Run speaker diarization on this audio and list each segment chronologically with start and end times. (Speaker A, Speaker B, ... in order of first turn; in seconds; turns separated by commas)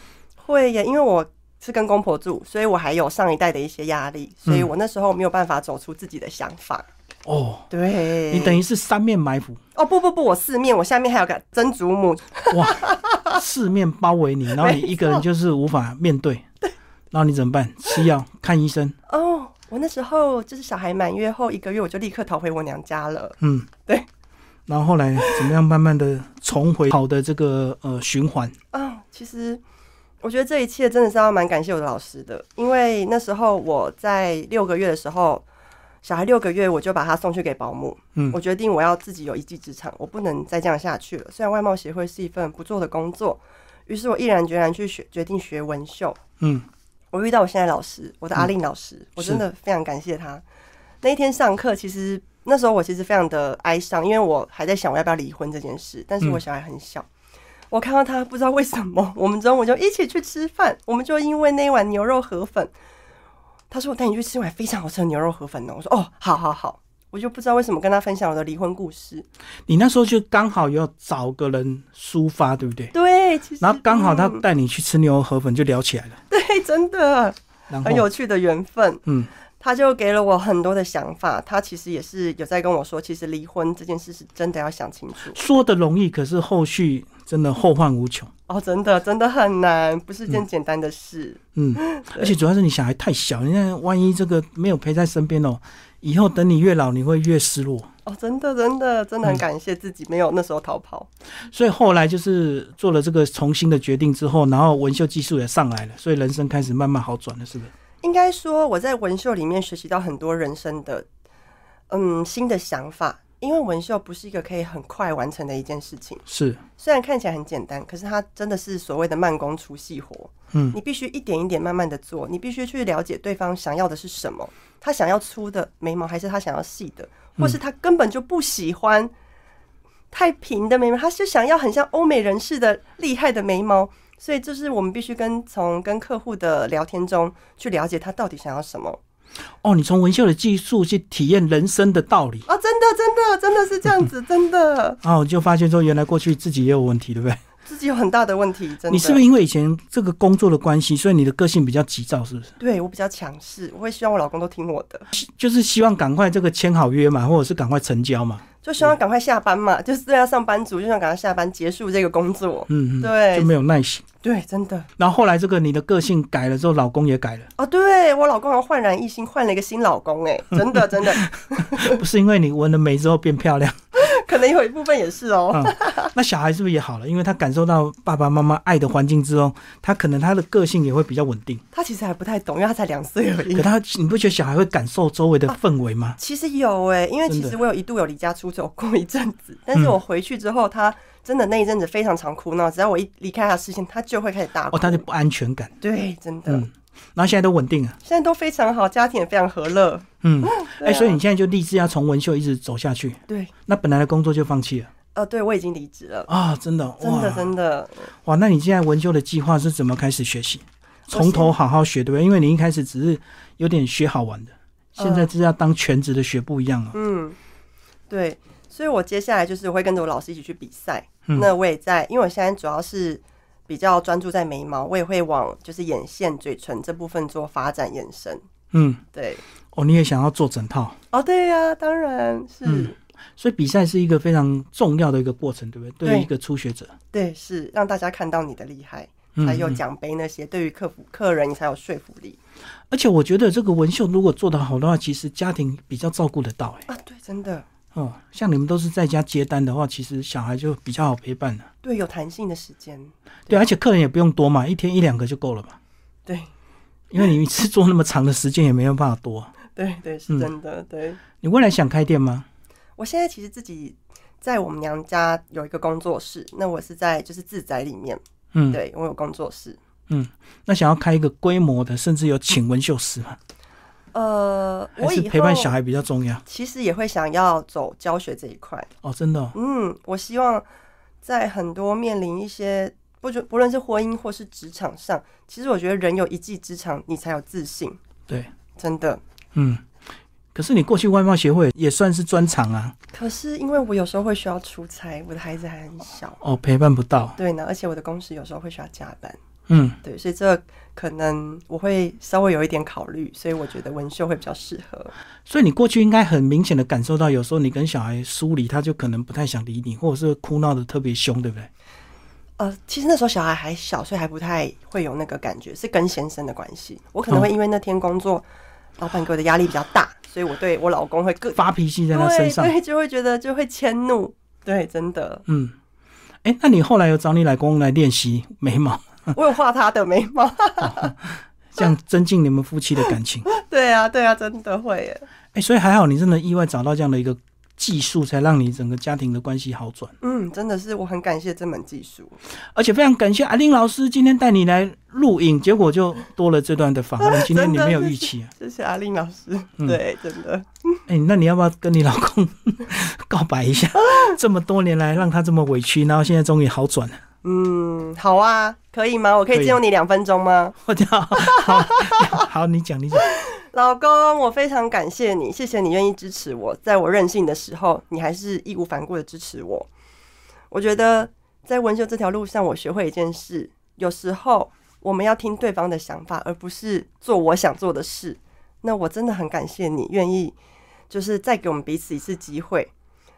Speaker A: 0.4-6.8, Speaker B: 7.3-7.7, Speaker A: 7.7-8.6, Speaker B: 8.3-9.6, Speaker A: 9.7-13.4, Speaker B: 12.5-16.4, Speaker A: 14.6-15.2, Speaker B: 17.1-18.9, Speaker A: 19.1-24.1, Speaker B: 23.4-23.7, Speaker B: 24.7-28.5, Speaker A: 25.2-25.5, Speaker A: 28.7-29.6, Speaker A: 30.2-35.4, Speaker A: 36.0-46.2, Speaker B: 46.4-46.7, Speaker A: 47.1-50.4, Speaker A: 51.0-57.1, Speaker A: 57.7-62.7, Speaker A: 63.7-69.2, Speaker B: 69.7-72.9, Speaker A: 72.9-74.4, Speaker B: 73.6-76.2, Speaker A: 76.3-79.0, Speaker B: 77.7-78.0, Speaker A: 79.6-85.4, Speaker B: 85.3-88.3, Speaker A: 88.5-92.3, Speaker B: 91.5-97.9, Speaker A: 98.0-101.1, Speaker B: 101.5-107.7, Speaker A: 108.0-111.0, Speaker A: 111.9-116.2, Speaker B: 116.3-116.6, Speaker A: 116.8-129.1, Speaker A: 130.1-139.0, Speaker B: 139.6-142.4, Speaker A: 142.4-145.0, Speaker B: 145.0-147.4, Speaker A: 147.7-149.2, Speaker B: 148.9-152.5, Speaker A: 152.6-155.1, Speaker B: 155.1-158.4, Speaker A: 158.6-163.5, Speaker B: 162.7-164.0, Speaker A: 164.2-164.9, Speaker B: 165.0-167.5, Speaker A: 167.6-172.0, Speaker B: 171.4-173.8, Speaker A: 173.9-176.1, Speaker B: 175.5-181.6, Speaker A: 181.7-183.7, Speaker B: 183.5-186.2, Speaker A: 186.2-195.0, Speaker B: 187.3-187.6, Speaker B: 194.7-195.7, Speaker A: 195.8-196.7, Speaker B: 196.5-198.0, Speaker A: 198.0-201.2, Speaker B: 200.2-204.9, Speaker A: 205.1-206.3, Speaker B: 206.3-207.5, Speaker A: 207.0-208.1, Speaker B: 208.2-216.9, Speaker A: 211.1-211.5, Speaker A: 215.0-215.3, Speaker A: 216.9-217.4, Speaker A: 218.1-228.4, Speaker B: 228.7-229.0, Speaker A: 229.1-229.4, Speaker B: 229.7-231.0, Speaker A: 231.1-232.9, Speaker B: 232.6-236.9, Speaker A: 236.0-236.3, Speaker A: 237.1-242.4, Speaker B: 239.3-239.8, Speaker B: 242.9-246.9, Speaker A: 246.9-247.6, Speaker B: 247.9-251.7, Speaker A: 251.8-253.6, Speaker B: 253.5-255.8, Speaker B: 257.1-259.5, Speaker A: 259.7-261.2, Speaker B: 261.4-262.4, Speaker A: 263.0-269.8, Speaker B: 268.5-268.8, Speaker B: 270.1-273.4, Speaker A: 274.1-275.8, Speaker B: 275.0-276.4, Speaker A: 276.4-278.9, Speaker B: 279.0-279.5, Speaker A: 279.5-280.6, Speaker A: 281.2-288.0, Speaker A: 288.8-289.2, Speaker B: 289.5-289.8, Speaker B: 290.5-292.9, Speaker A: 293.1-296.4, Speaker B: 296.4-297.4, Speaker A: 297.4-299.4, Speaker B: 299.7-300.0, Speaker A: 300.0-305.1, Speaker B: 305.5-311.7, Speaker A: 312.6-318.4, Speaker A: 319.0-321.6, Speaker B: 321.5-322.7, Speaker A: 322.1-325.4, Speaker B: 325.5-325.7, Speaker B: 326.4-329.3, Speaker A: 329.3-331.1, Speaker B: 330.8-333.5, Speaker A: 333.4-335.2, Speaker B: 335.5-340.1, Speaker A: 340.2-342.4, Speaker B: 342.7-348.5, Speaker A: 347.2-351.0, Speaker B: 351.1-357.2, Speaker A: 357.4-360.8, Speaker B: 359.5-359.8, Speaker B: 360.8-363.3, Speaker A: 361.3-362.4, Speaker A: 363.2-369.9, Speaker A: 370.7-380.5, Speaker A: 381.1-382.9